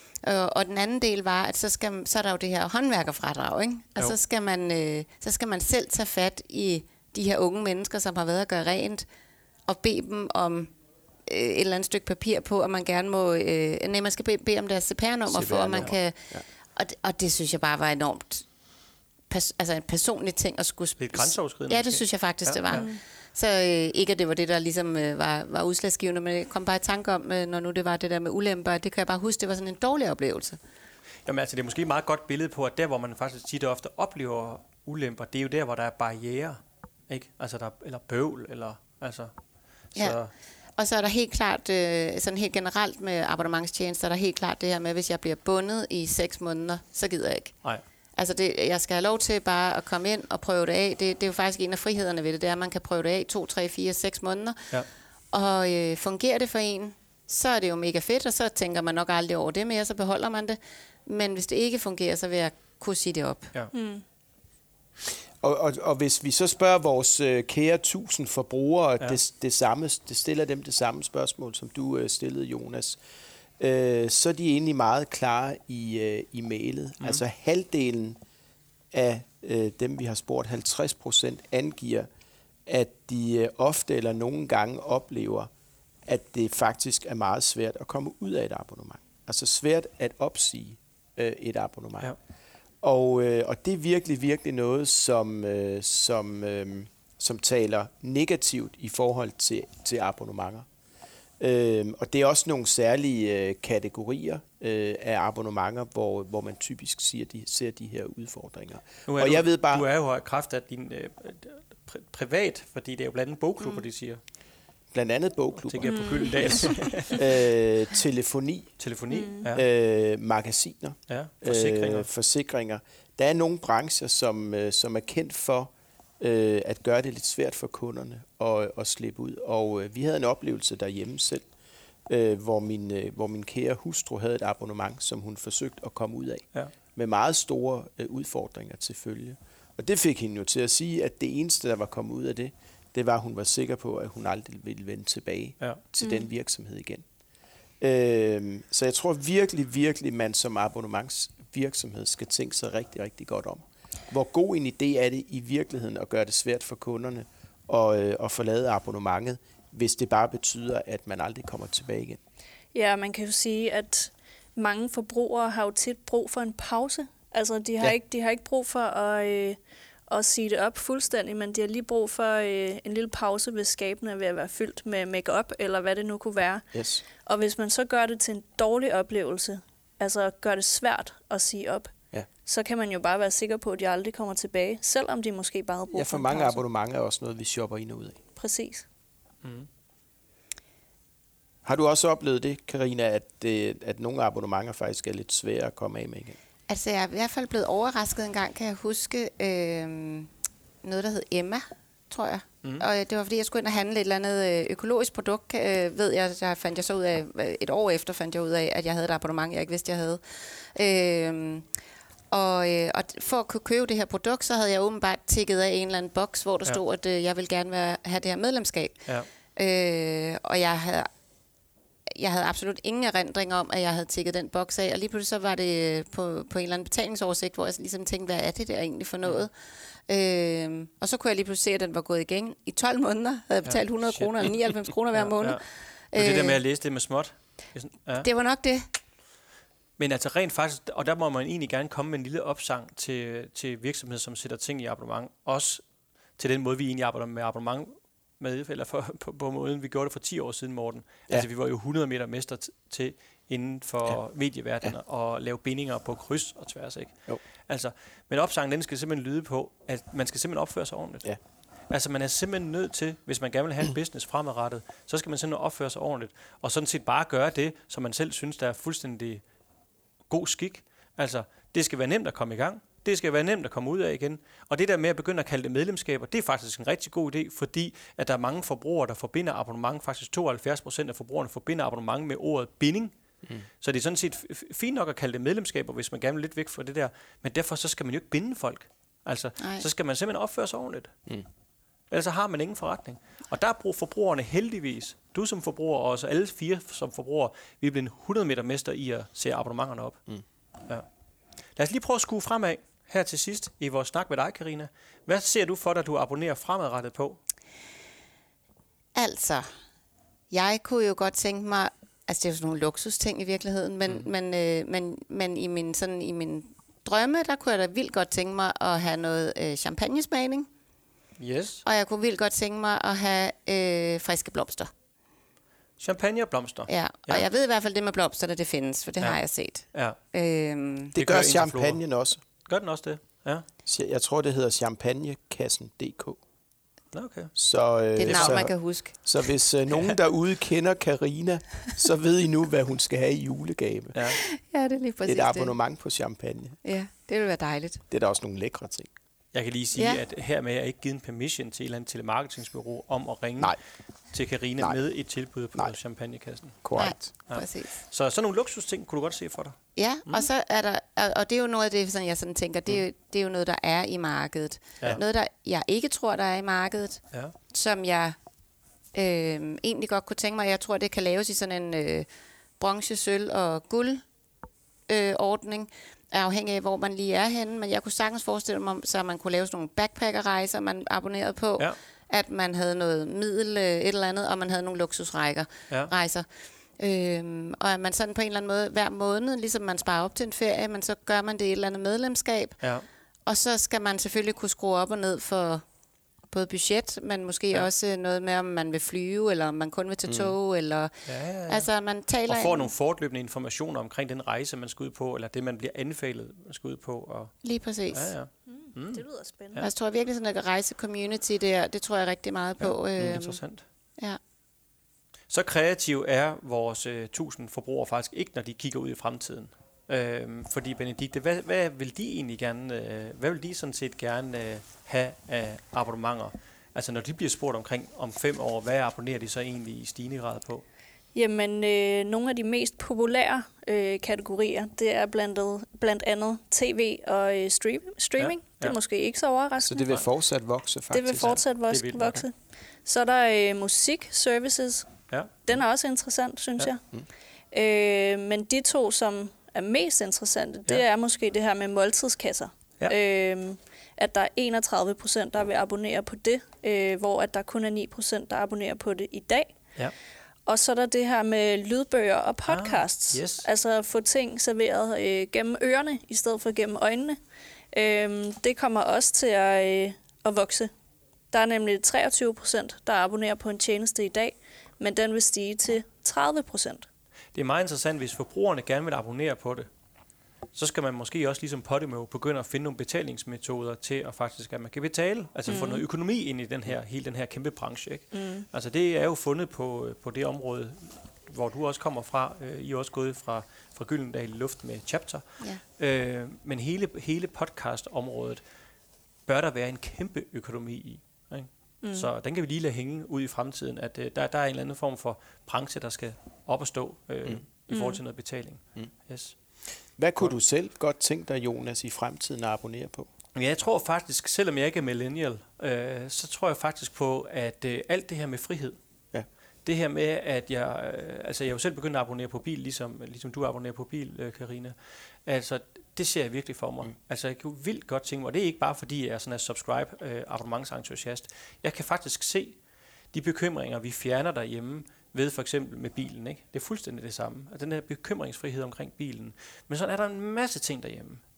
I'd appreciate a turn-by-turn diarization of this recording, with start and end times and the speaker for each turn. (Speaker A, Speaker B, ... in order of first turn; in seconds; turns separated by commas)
Speaker A: 0.2-9.1, Speaker A: 9.7-10.7, Speaker A: 11.3-18.5, Speaker B: 15.3-16.4, Speaker A: 19.3-30.6, Speaker C: 21.0-22.9, Speaker D: 22.7-23.0, Speaker C: 31.3-39.3, Speaker C: 39.9-40.3, Speaker A: 40.8-47.6, Speaker A: 48.2-54.7, Speaker A: 55.3-63.5, Speaker D: 63.7-64.0, Speaker B: 65.4-73.0, Speaker B: 73.6-78.2, Speaker B: 78.9-82.1, Speaker B: 82.7-85.5, Speaker B: 86.1-92.1, Speaker B: 92.8-100.7, Speaker B: 101.4-109.9, Speaker C: 109.1-114.2, Speaker B: 114.9-118.8, Speaker C: 115.6-117.3, Speaker D: 115.8-117.0, Speaker C: 118.8-119.6, Speaker D: 119.1-119.5, Speaker B: 119.5-131.5, Speaker C: 121.1-122.1, Speaker B: 132.1-147.0, Speaker B: 147.8-162.2, Speaker D: 162.7-176.7, Speaker B: 176.7-177.0, Speaker D: 177.2-181.9, Speaker D: 182.4-186.6, Speaker B: 185.9-188.2, Speaker D: 188.4-188.9, Speaker B: 191.7-196.4, Speaker A: 196.7-200.3, Speaker A: 200.8-211.7, Speaker A: 212.3-221.1, Speaker A: 222.2-229.5, Speaker A: 230.1-236.6, Speaker C: 233.7-234.5, Speaker C: 235.1-235.6, Speaker C: 236.1-238.3, Speaker A: 238.2-238.9, Speaker C: 240.0-245.8, Speaker C: 246.4-261.3, Speaker C: 261.9-269.4, Speaker C: 270.3-283.1, Speaker C: 283.8-291.1, Speaker A: 289.6-289.9, Speaker C: 292.1-300.2, Speaker C: 301.8-307.4, Speaker A: 309.1-309.7, Speaker A: 310.5-320.7, Speaker C: 321.4-321.8, Speaker A: 321.8-324.9, Speaker C: 326.0-327.5, Speaker A: 326.9-331.1, Speaker C: 331.1-332.0, Speaker B: 331.2-332.4, Speaker C: 332.6-333.7, Speaker B: 333.9-336.4, Speaker C: 337.1-337.5, Speaker B: 337.6-344.3, Speaker A: 338.2-339.2, Speaker C: 338.2-338.7, Speaker C: 344.1-344.4, Speaker A: 344.3-345.8, Speaker B: 345.2-346.8, Speaker A: 346.8-348.0, Speaker B: 348.1-349.1, Speaker C: 349.5-353.8, Speaker A: 350.0-350.2, Speaker C: 354.3-360.5, Speaker B: 356.8-357.2, Speaker A: 357.0-358.0, Speaker A: 360.0-368.4, Speaker A: 369.1-372.3, Speaker A: 372.8-374.2, Speaker A: 375.1-386.5, Speaker A: 387.0-392.8, Speaker C: 392.8-393.1, Speaker A: 393.5-395.9, Speaker A: 396.5-402.9, Speaker B: 400.3-400.5, Speaker C: 401.3-401.9, Speaker C: 402.5-407.6, Speaker A: 407.6-408.4, Speaker C: 408.1-409.9, Speaker D: 408.7-409.8, Speaker A: 409.8-413.6, Speaker C: 412.8-413.9, Speaker C: 415.5-430.8, Speaker D: 431.4-440.1, Speaker C: 438.4-439.0, Speaker B: 439.8-441.6, Speaker D: 441.1-447.0, Speaker C: 441.4-442.4, Speaker C: 445.3-445.7, Speaker D: 447.7-459.8, Speaker D: 460.7-467.4, Speaker C: 462.7-463.7, Speaker D: 467.9-470.9, Speaker D: 471.5-477.1, Speaker C: 477.5-479.9, Speaker C: 480.7-498.6, Speaker D: 485.7-486.0, Speaker D: 488.3-488.7, Speaker C: 499.5-509.6, Speaker D: 502.0-502.3, Speaker D: 507.9-508.2, Speaker B: 510.2-513.3, Speaker C: 513.5-519.0, Speaker C: 519.9-525.0, Speaker C: 525.5-532.8, Speaker C: 533.3-541.4